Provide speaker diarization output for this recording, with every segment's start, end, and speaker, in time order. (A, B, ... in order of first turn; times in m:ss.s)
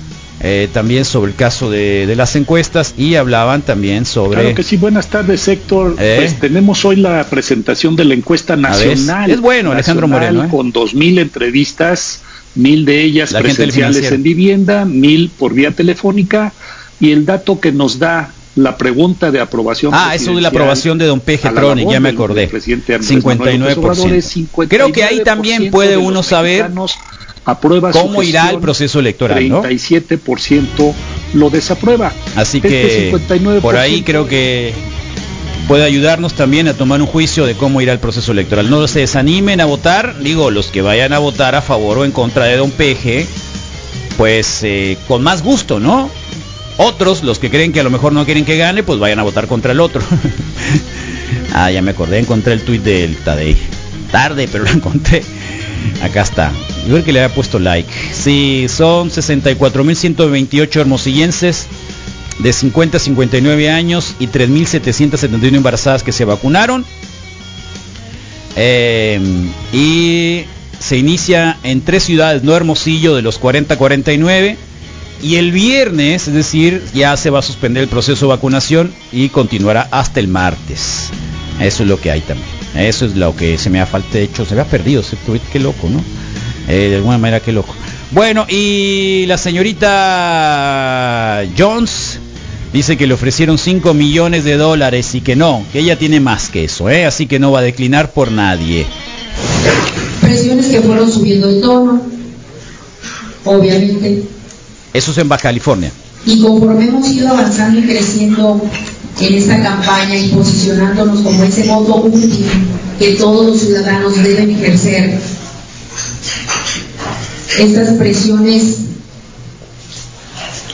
0:00.4-0:04.6 A
0:04.3-0:20.9 B
0:06.0-0:06.4 A
0:08.7-0:10.6 A
0:13.3-0:14.2 A
0:19.9-0:26.7 A
0:21.4-0:28.8 B
0:27.9-0:29.7 A
0:29.3-0:34.4 B
0:32.4-0:34.8 A
0:35.7-0:43.3 A
0:44.2-0:46.1 A
0:46.8-0:50.1 A
0:51.5-0:55.3 A
0:56.0-1:01.7 A
1:02.4-1:06.9 A
1:08.6-1:14.6 A
1:15.2-1:26.1 A
1:26.7-1:32.2 A
1:32.7-1:38.9 A
1:40.2-1:42.1 C
1:43.4-1:44.2 C
1:44.9-1:45.9 A
1:46.2-1:48.7 C
1:49.2-1:55.2 C
1:57.5-1:58.8 C